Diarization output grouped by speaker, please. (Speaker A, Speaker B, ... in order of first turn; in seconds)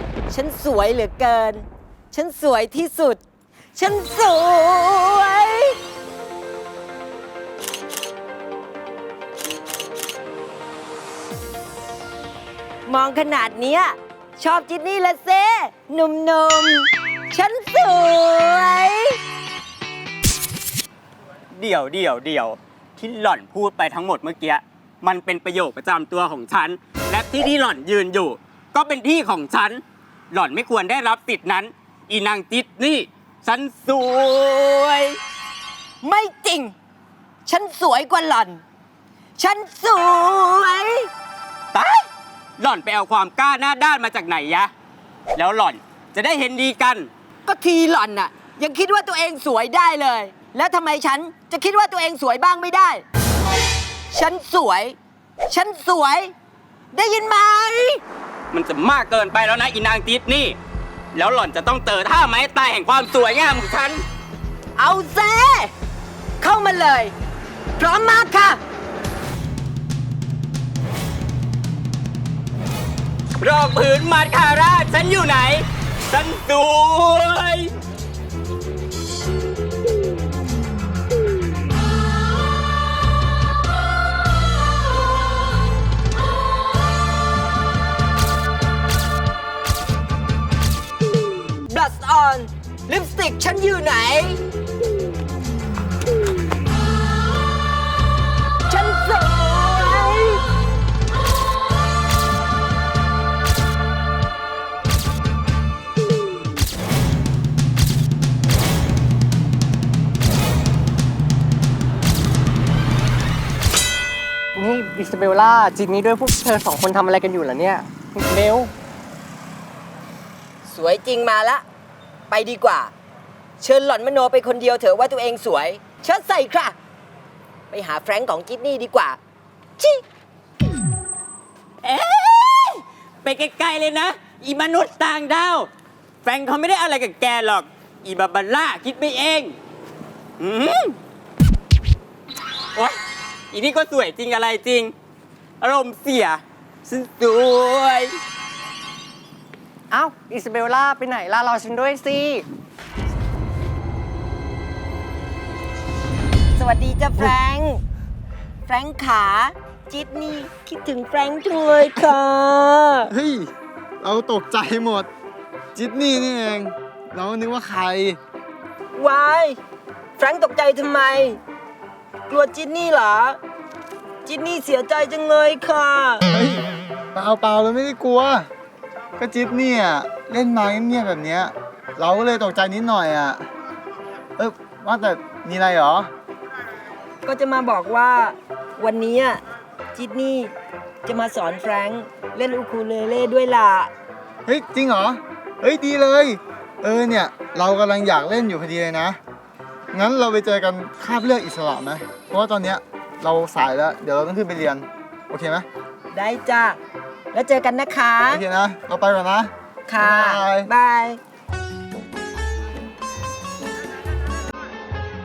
Speaker A: 0.3-3.2, 3.7-5.7, 12.8-19.2, 36.0-36.7, 37.5-38.6, 39.4-41.1, 47.5-53.0, 54.1-55.0, 55.5-56.3, 56.9-58.0, 64.8-65.7, 66.4-67.1, 67.8-68.6, 91.7-94.4, 98.7-100.4, 120.7-121.6, 122.3-122.9, 123.6-126.8, 127.7-129.2, 156.6-157.8, 158.7-163.1, 168.9-169.6, 170.2-171.4, 172.3-173.4, 174.2-176.2, 187.2-189.4, 189.9-190.5, 191.0-193.9, 206.1-206.8, 207.3-208.4, 209.9-211.2
Speaker B: 21.5-35.2, 41.7-42.1, 42.6-44.7, 45.3-47.1, 58.5-60.6, 61.1-64.0, 73.4-77.7, 131.8-135.7, 136.2-139.6, 140.4-141.0, 142.7-143.0, 143.5-144.9, 145.6-148.2
Speaker C: 114.5-118.7, 149.9-152.4
Speaker D: 163.1-165.1, 165.7-168.2, 176.3-178.5, 179.2-183.5, 184.4-186.1, 194.4-199.2, 199.9-205.7, 208.3-210.7